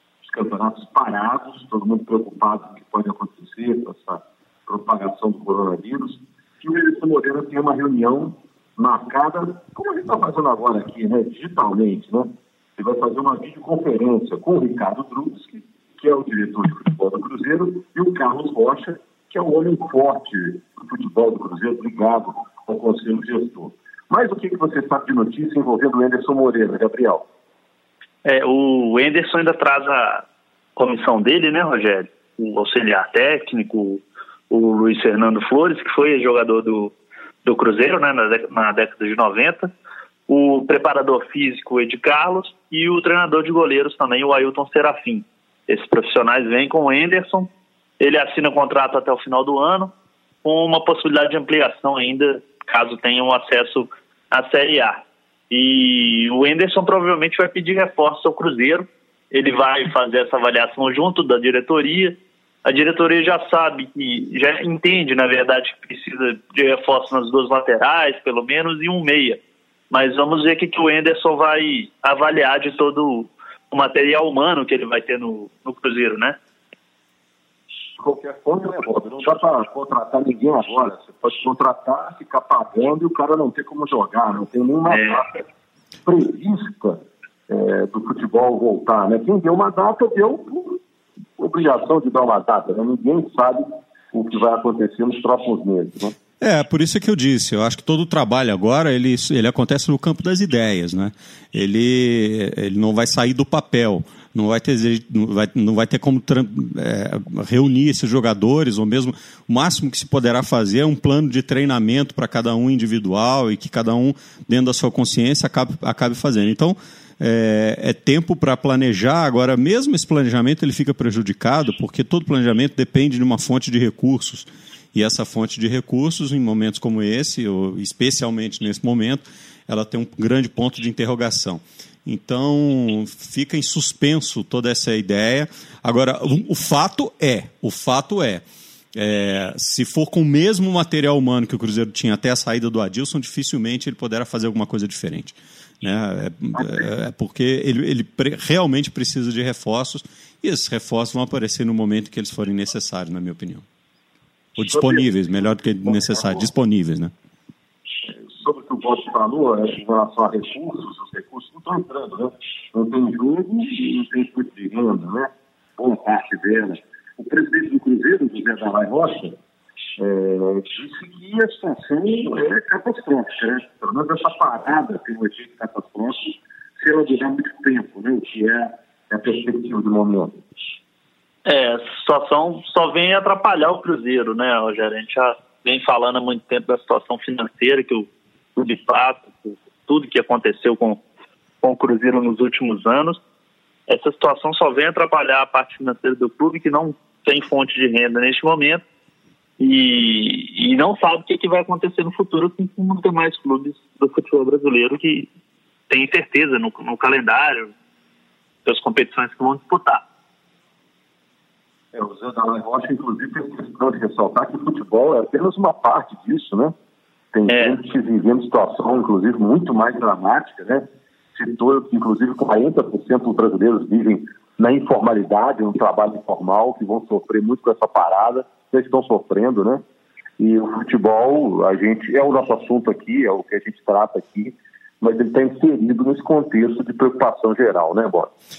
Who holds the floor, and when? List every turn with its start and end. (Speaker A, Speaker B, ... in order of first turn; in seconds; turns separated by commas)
Speaker A: 0.2-27.2, Speaker B: 28.2-30.2, Speaker B: 30.8-36.9, Speaker B: 37.4-39.7, Speaker B: 40.3-49.9, Speaker B: 50.4-54.9, Speaker B: 55.5-69.4, Speaker B: 69.9-76.4, Speaker A: 78.0-85.4, Speaker B: 84.9-85.3, Speaker A: 86.0-90.8, Speaker A: 91.4-96.1, Speaker C: 96.4-138.4, Speaker C: 138.9-153.6, Speaker C: 154.6-157.1, Speaker A: 154.7-155.1, Speaker A: 155.8-156.4, Speaker A: 158.1-169.4, Speaker A: 170.0-180.4, Speaker B: 181.4-191.0, Speaker B: 191.6-193.2, Speaker B: 193.9-198.8, Speaker B: 199.6-205.3, Speaker B: 205.9-207.7, Speaker B: 208.7-210.0, Speaker A: 211.9-216.7, Speaker A: 217.3-229.8, Speaker B: 217.5-217.8, Speaker A: 230.4-238.3